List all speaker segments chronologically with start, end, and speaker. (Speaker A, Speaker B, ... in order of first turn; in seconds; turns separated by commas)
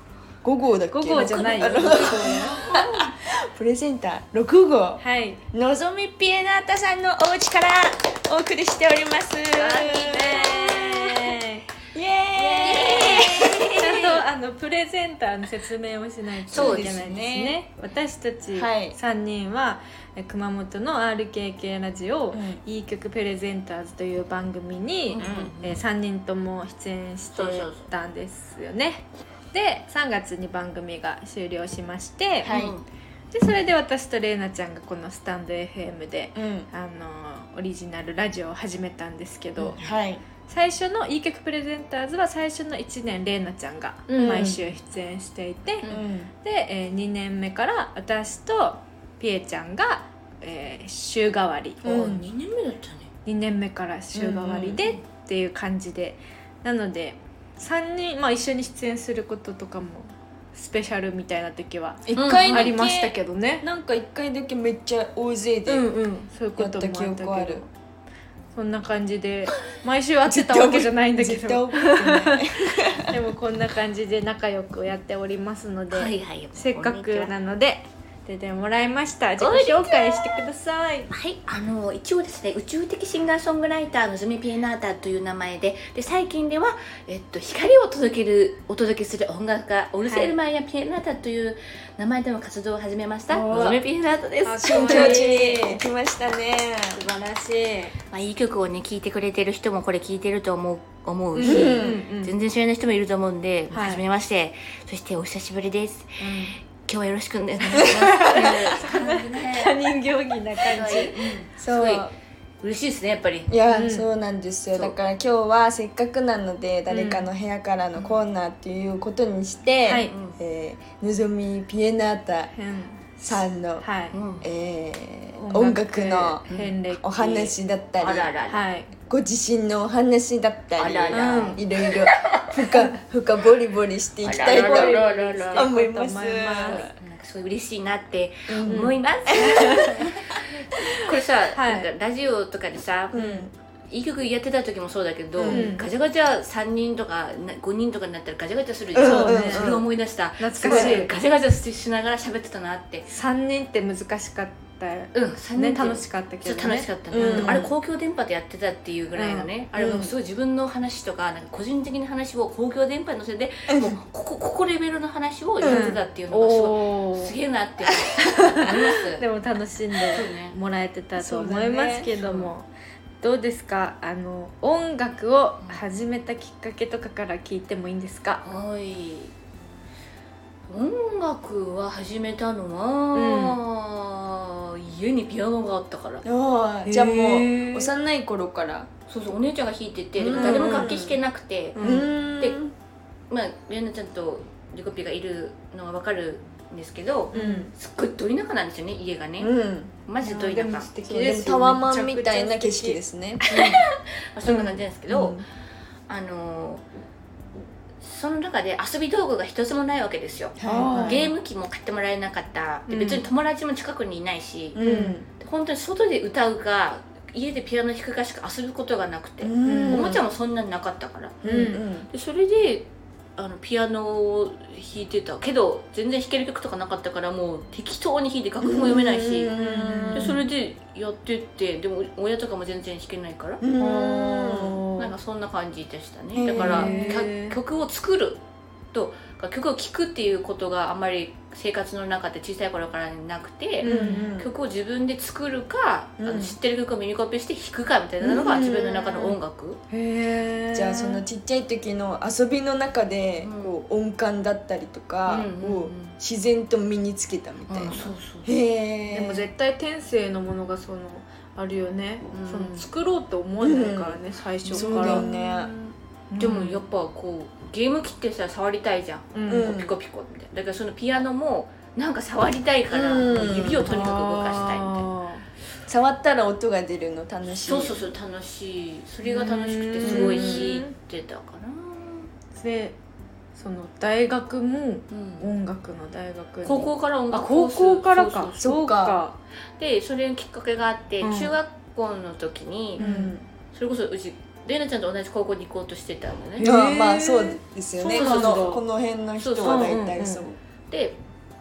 Speaker A: 0.4-11.3, Speaker B: 0.9-3.1, Speaker C: 1.8-2.4, Speaker B: 5.0-5.4, Speaker B: 9.6-11.7, Speaker C: 9.6-10.2, Speaker A: 11.9-14.2, Speaker B: 12.3-32.6, Speaker C: 12.6-13.4, Speaker C: 16.5-16.9, Speaker A: 16.5-17.6, Speaker A: 18.5-19.0, Speaker A: 22.3-22.6, Speaker C: 25.1-25.8, Speaker A: 25.2-25.5, Speaker C: 27.3-27.9, Speaker A: 32.4-32.7, Speaker C: 32.4-32.8, Speaker B: 33.3-39.8, Speaker A: 36.3-36.7, Speaker A: 39.6-40.2, Speaker B: 40.5-45.8, Speaker C: 44.1-44.3, Speaker A: 44.1-44.6, Speaker A: 45.9-46.3, Speaker B: 46.4-52.2, Speaker A: 51.8-52.3, Speaker C: 51.8-53.1, Speaker B: 53.2-63.6, Speaker A: 54.1-54.8, Speaker A: 62.1-65.9, Speaker C: 62.1-62.7, Speaker B: 65.7-67.7, Speaker A: 66.6-67.6, Speaker B: 68.5-81.1, Speaker A: 70.2-73.1, Speaker C: 75.9-77.3, Speaker C: 79.4-80.4, Speaker C: 81.1-95.5, Speaker B: 90.0-90.3, Speaker B: 93.3-93.8, Speaker B: 94.4-95.8, Speaker A: 94.6-97.0, Speaker B: 96.9-97.9, Speaker C: 98.1-109.8, Speaker B: 101.3-102.3, Speaker A: 101.4-102.0, Speaker B: 103.7-104.0, Speaker B: 106.2-106.6, Speaker B: 107.7-111.2, Speaker A: 107.7-108.5, Speaker C: 110.6-112.1, Speaker A: 111.6-112.1, Speaker C: 112.6-113.5, Speaker A: 113.5-122.5, Speaker B: 113.7-114.1, Speaker B: 116.9-117.3, Speaker B: 119.8-120.1, Speaker C: 119.9-120.4, Speaker B: 122.5-123.0, Speaker A: 123.2-123.8, Speaker B: 123.8-124.1, Speaker C: 124.1-124.5, Speaker A: 124.4-126.4, Speaker B: 125.3-127.1, Speaker C: 126.5-128.7, Speaker A: 127.0-128.3, Speaker B: 128.5-128.9, Speaker A: 129.1-135.0, Speaker C: 130.8-132.7, Speaker B: 131.1-131.6, Speaker C: 134.2-135.7, Speaker B: 134.4-136.9, Speaker A: 135.5-136.9, Speaker C: 136.7-143.2, Speaker A: 138.5-140.1, Speaker B: 138.7-139.9, Speaker B: 141.5-141.9, Speaker A: 143.1-143.5, Speaker B: 143.1-143.5, Speaker C: 143.9-153.1, Speaker A: 145.3-145.7, Speaker B: 145.5-145.8, Speaker A: 148.9-149.9, Speaker B: 149.0-149.8, Speaker B: 150.4-151.1, Speaker A: 150.6-151.0, Speaker B: 153.1-157.6, Speaker C: 155.1-169.2, Speaker A: 157.1-157.7, Speaker B: 159.1-159.5, Speaker A: 159.8-160.1, Speaker A: 163.7-163.9, Speaker A: 165.6-165.8, Speaker B: 165.6-167.3, Speaker B: 168.2-172.7, Speaker C: 170.1-170.6, Speaker A: 171.2-172.1, Speaker C: 172.2-172.5, Speaker B: 173.2-178.4, Speaker C: 178.4-179.3, Speaker C: 180.7-186.2, Speaker B: 183.1-183.6, Speaker A: 186.2-188.9, Speaker B: 186.8-187.9, Speaker C: 189.1-191.8, Speaker A: 190.2-191.2, Speaker B: 190.3-191.0, Speaker B: 191.7-192.1, Speaker A: 191.8-192.7, Speaker C: 193.3-199.5, Speaker B: 197.3-197.7, Speaker A: 197.3-197.6, Speaker A: 199.4-199.9, Speaker C: 200.1-200.9, Speaker B: 200.2-203.8, Speaker A: 201.0-203.4, Speaker C: 203.4-205.4, Speaker B: 204.5-204.8, Speaker A: 205.1-205.4, Speaker C: 206.1-206.8, Speaker C: 208.0-214.8, Speaker A: 210.6-211.2, Speaker B: 210.6-211.3, Speaker B: 212.9-213.2, Speaker A: 214.7-215.3, Speaker B: 214.8-215.2, Speaker C: 215.3-221.4, Speaker A: 219.4-220.2, Speaker B: 219.6-220.2, Speaker A: 221.4-222.1, Speaker B: 221.4-221.8, Speaker C: 222.1-229.5, Speaker A: 228.6-230.4, Speaker B: 229.5-230.4, Speaker C: 230.1-233.6, Speaker A: 233.6-234.8, Speaker B: 233.8-235.1, Speaker C: 235.0-238.4, Speaker A: 236.3-237.3, Speaker B: 236.5-237.6, Speaker C: 238.9-249.8, Speaker B: 243.8-244.3, Speaker A: 243.8-244.5, Speaker A: 246.2-246.6, Speaker A: 248.2-249.4, Speaker B: 249.9-251.2, Speaker A: 250.7-259.5, Speaker C: 253.4-253.8, Speaker C: 255.3-256.2, Speaker C: 257.7-258.5, Speaker B: 259.1-266.8, Speaker C: 262.3-262.9, Speaker A: 263.6-265.7, Speaker C: 264.7-265.2, Speaker C: 266.4-275.1, Speaker B: 269.3-269.7, Speaker A: 269.5-269.9, Speaker A: 272.9-274.1, Speaker B: 273.3-275.4, Speaker A: 275.9-278.1, Speaker C: 277.6-282.3, Speaker B: 279.2-280.9, Speaker A: 280.0-280.7, Speaker B: 282.5-282.9, Speaker B: 283.5-289.4, Speaker C: 285.1-285.4, Speaker C: 286.6-288.6, Speaker A: 288.6-289.2, Speaker C: 289.8-293.0, Speaker B: 291.2-291.5, Speaker A: 293.0-293.4, Speaker B: 293.0-293.4, Speaker C: 293.7-296.7, Speaker B: 296.6-297.6, Speaker A: 296.6-300.6, Speaker C: 298.0-298.8, Speaker B: 298.1-298.8, Speaker C: 299.4-299.9, Speaker B: 299.6-300.4, Speaker C: 300.9-301.2